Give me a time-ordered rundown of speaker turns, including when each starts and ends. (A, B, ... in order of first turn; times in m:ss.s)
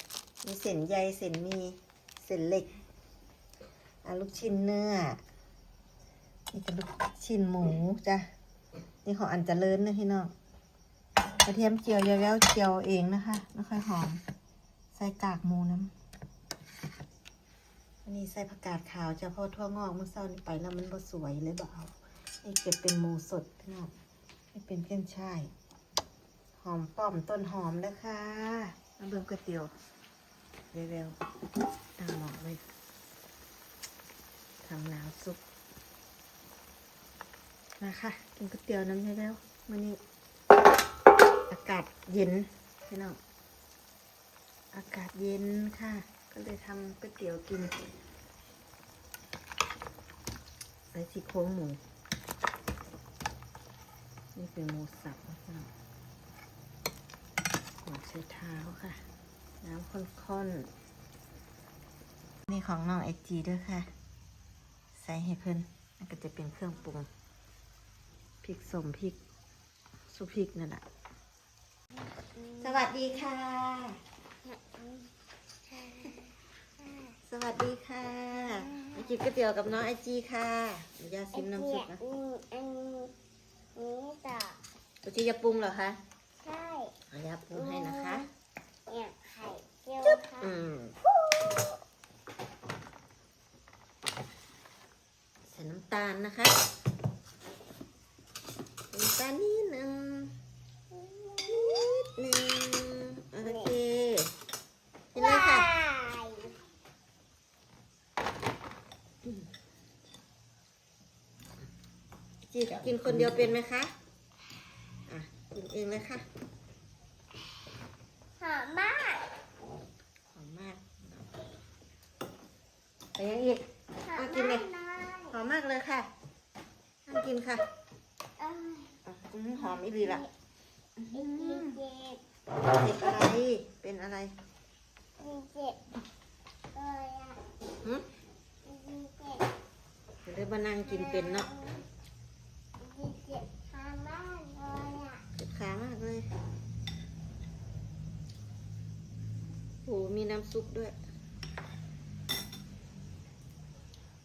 0:00.4-0:02.7 A
0:04.0-0:05.2 A
0:06.5-0:08.3 A
0:09.0-0:10.3 A
0:11.4-0:14.2 A
0:14.9-0:15.9 A
0:18.0-0:23.9 A
0:24.5-0:25.5 A
0:26.6-0:29.7 A
0:30.7-0:31.2 A
0:32.0-0:32.6 A
0:34.6-0:35.4 A
0:37.8-0:40.0 A
0:41.5-0:43.2 A
0:44.7-0:47.8 A
0:50.9-0:51.8 A
0:54.4-0:55.7 A
0:57.8-0:59.0 A
0:59.6-1:00.7 A
1:02.5-1:03.9 A
1:04.9-1:07.1 A
1:08.4-1:09.2 A
1:10.1-1:10.8 A
1:12.2-1:12.8 B
1:12.6-1:14.0 A
1:14.4-1:15.1 B
1:15.7-1:17.2 B
1:17.2-1:22.0 A
1:18.3-1:19.1 B
1:21.3-1:23.1 B
1:23.8-1:24.6 B
1:25.0-1:26.0 A
1:26.4-1:27.0 B
1:27.1-1:28.3 A
1:27.5-1:28.2 B
1:28.9-1:30.5 B
1:30.0-1:31.0 A
1:31.2-1:31.6 B
1:35.5-1:36.5 A
1:38.9-1:40.3 A
1:40.9-1:41.9 B
1:41.5-1:44.3 A
1:43.4-1:43.7 B
1:45.1-1:45.7 A
1:45.2-1:46.6 B
1:52.5-1:53.9 A
1:55.1-1:56.2 A
1:58.4-1:59.3 B
2:00.3-2:01.3 A
2:03.2-2:04.7 A
2:04.0-2:05.4 B
2:05.3-2:06.1 A
2:07.1-2:07.6 A
2:08.4-2:09.0 B
2:09.0-2:10.2 A
2:09.6-2:10.3 B
2:11.0-2:11.8 A
2:11.1-2:12.2 B
2:12.7-2:14.3 A
2:15.2-2:15.8 B
2:16.7-2:17.4 B
2:18.6-2:19.5 B
2:20.2-2:21.5 A
2:20.8-2:21.8 B
2:22.8-2:25.2 B
2:25.4-2:26.3 A
2:29.9-2:31.0 A